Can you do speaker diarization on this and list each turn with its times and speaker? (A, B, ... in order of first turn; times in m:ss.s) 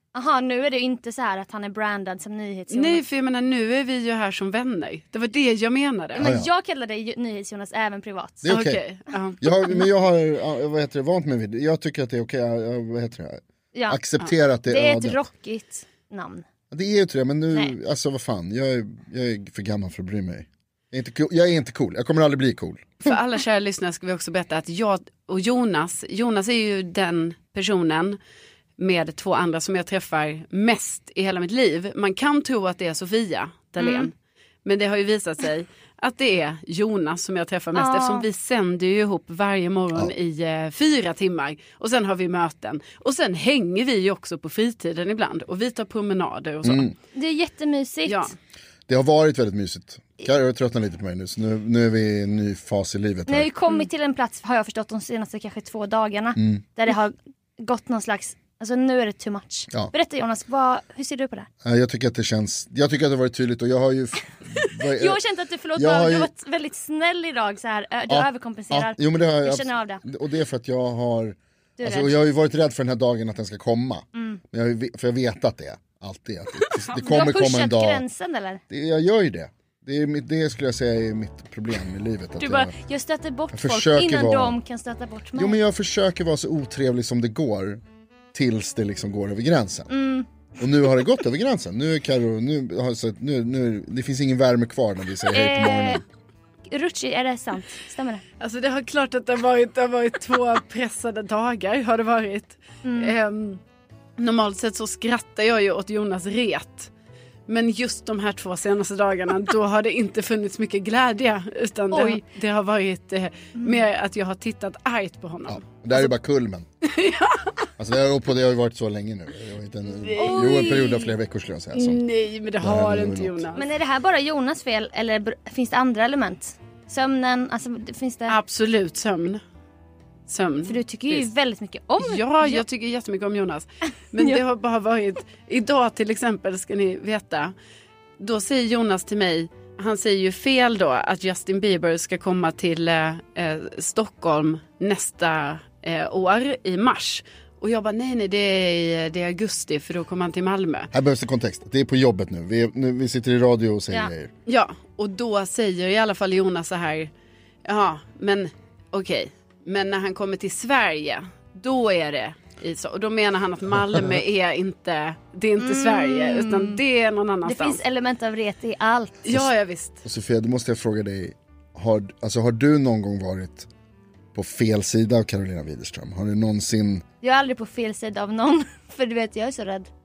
0:00.1-0:03.0 A
0:02.7-0:06.2 B
0:06.2-0:08.6 A
0:06.2-0:06.5 C
0:08.4-0:08.8 C
0:08.5-0:09.4 B
0:09.4-0:15.2 C
0:13.7-0:14.0 A
0:14.7-0:16.4 A
0:16.7-0:23.2 C
0:23.0-0:28.2 B
0:28.8-0:34.1 B
0:33.8-0:34.1 A
0:34.6-0:46.9 B
0:37.8-0:38.2 A
0:46.6-0:46.9 C
0:47.1-0:48.3 A
0:48.1-0:48.3 B
0:48.9-0:53.5 C
0:53.3-1:01.5 A
0:56.4-0:56.6 C
1:01.6-1:05.2 C
1:04.9-1:10.0 A
1:05.8-1:06.3 C
1:08.1-1:18.0 C
1:11.8-1:12.2 A
1:14.1-1:14.4 A
1:17.0-1:18.6 A
1:18.7-1:22.7 C
1:22.4-1:25.6 A
1:23.5-1:24.6 C
1:25.4-1:27.8 C
1:28.3-1:30.0 C
1:29.9-1:30.3 A
1:30.6-1:36.0 C
1:35.3-1:36.0 A
1:36.7-1:38.2 A
1:38.4-1:43.6 B
1:42.8-1:43.2 A
1:44.2-1:46.9 B
1:47.5-1:56.1 B
1:51.9-1:52.2 A
1:53.6-1:53.8 A
1:55.5-1:56.7 C
1:56.8-1:57.5 B
1:57.8-2:02.0 C
2:00.1-2:00.9 B
2:00.2-2:01.1 A
2:01.7-2:03.6 B
2:02.6-2:03.4 C
2:03.6-2:08.4 A
2:08.3-2:09.4 B
2:10.3-2:11.3 B
2:10.6-2:12.6 A
2:12.0-2:17.5 B
2:18.2-2:30.9 B
2:30.9-2:34.3 C
2:34.5-2:37.1 B
2:37.6-2:47.8 B
2:45.6-2:46.8 A
2:47.4-2:49.1 A
2:49.2-2:50.0 B
2:50.0-2:53.7 C
2:54.3-2:57.0 C
2:57.2-2:59.9 A